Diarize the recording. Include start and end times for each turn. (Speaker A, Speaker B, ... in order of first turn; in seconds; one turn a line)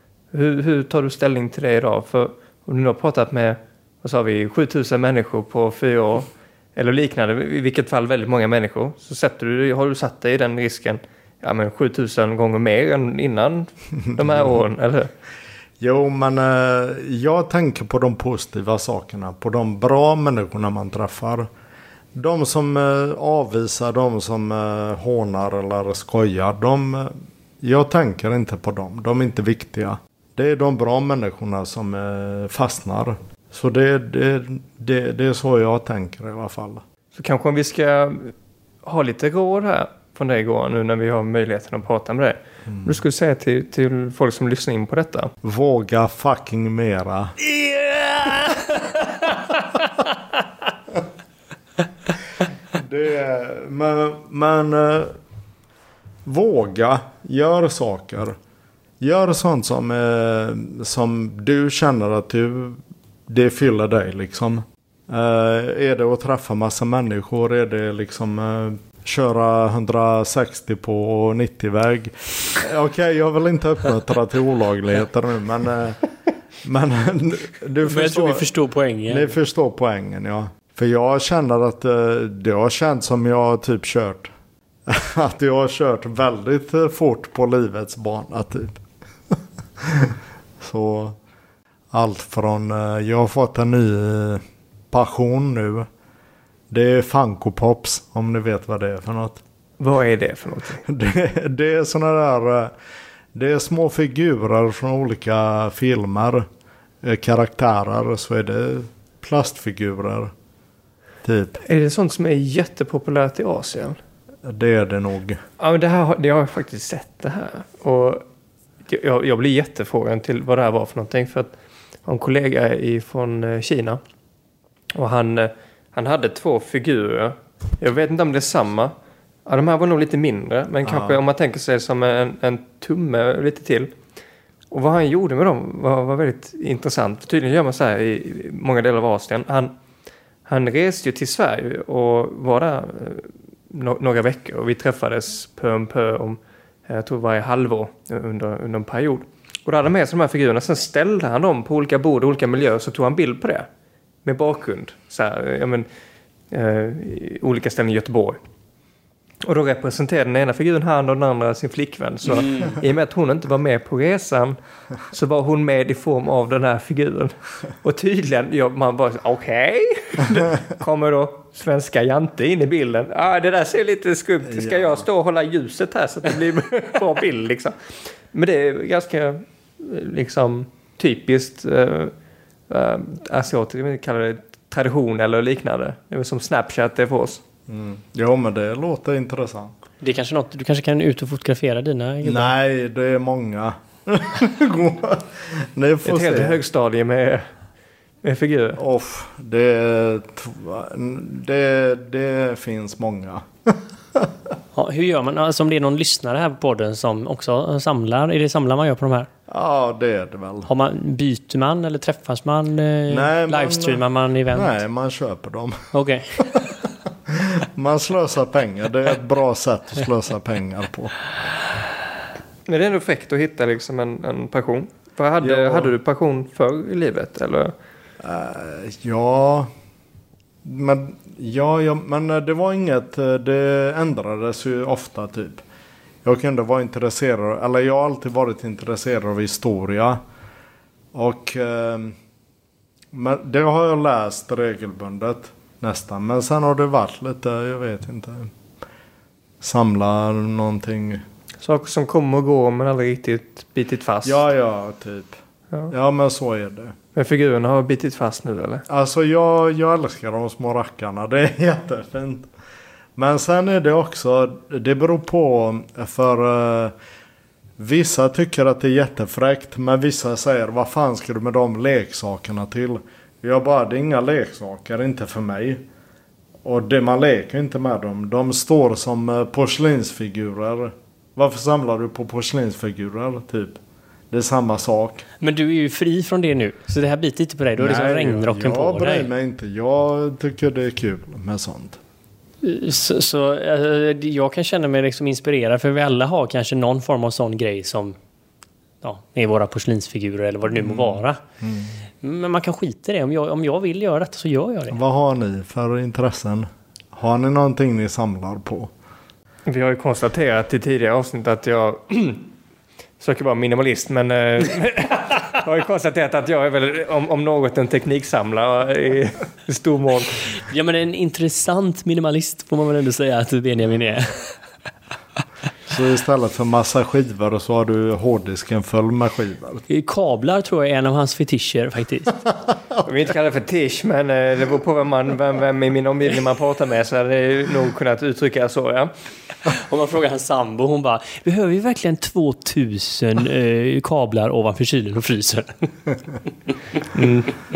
Speaker A: 0.3-15.1
Speaker B: 14.2-14.6
Speaker B: 15.8-21.5
Speaker B: 22.1-36.8
Speaker A: 37.1-45.3
Speaker B: 45.4-47.4
Speaker C: 47.5-49.2
Speaker B: 52.7-55.2
Speaker B: 56.2-58.4
Speaker B: 59.0-76.0
Speaker B: 76.6-78.5
Speaker C: 77.8-79.3
Speaker B: 79.1-84.3
Speaker B: 84.9-91.2
Speaker B: 91.9-95.9
Speaker B: 96.7-99.4
Speaker A: 99.8-100.8
Speaker B: 100.8-102.7
Speaker B: 103.3-106.5
Speaker B: 107.0-110.3
Speaker B: 111.2-111.6
Speaker A: 111.6-114.0
Speaker B: 114.4-115.4
Speaker A: 115.6-118.3
Speaker A: 118.9-124.0
Speaker A: 125.0-128.9
Speaker A: 129.5-133.9
Speaker B: 130.8-131.2
Speaker A: 134.7-139.8
Speaker A: 140.5-153.7
Speaker A: 154.2-155.9
Speaker A: 156.5-158.4
Speaker A: 159.4-182.1
Speaker B: 174.5-175.1
Speaker A: 182.7-187.4
Speaker B: 187.7-189.7
Speaker C: 190.0-192.5
Speaker B: 192.2-196.6
Speaker A: 196.1-197.5
Speaker A: 198.2-198.8
Speaker B: 198.8-204.3
Speaker C: 204.7-209.3
Speaker B: 209.5-210.7
Speaker C: 210.7-214.8
Speaker B: 213.1-216.6
Speaker C: 215.9-216.7
Speaker B: 217.3-221.2
Speaker A: 222.7-227.7
Speaker B: 225.4-225.9
Speaker B: 228.2-229.7
Speaker B: 230.6-235.6
Speaker B: 236.2-240.2
Speaker B: 241.1-242.2
Speaker B: 243.1-248.5
Speaker B: 249.6-251.2
Speaker A: 251.6-254.4
Speaker B: 254.2-255.4
Speaker B: 255.9-257.0
Speaker A: 257.1-258.9
Speaker B: 258.9-262.5
Speaker B: 263.2-266.9
Speaker B: 267.8-275.8
Speaker B: 276.6-283.8
Speaker B: 284.3-285.3
Speaker C: 285.4-289.3
Speaker B: 287.8-292.0
Speaker C: 292.6-298.2
Speaker C: 299.0-301.4
Speaker B: 300.8-302.0
Speaker C: 302.2-305.0
Speaker B: 304.9-308.9
Speaker A: 309.7-312.5
Speaker A: 313.2-320.5
Speaker C: 320.5-324.6
Speaker B: 325.9-329.9
Speaker C: 329.9-332.4
Speaker A: 333.0-339.1
Speaker C: 339.7-345.9
Speaker A: 347.1-347.5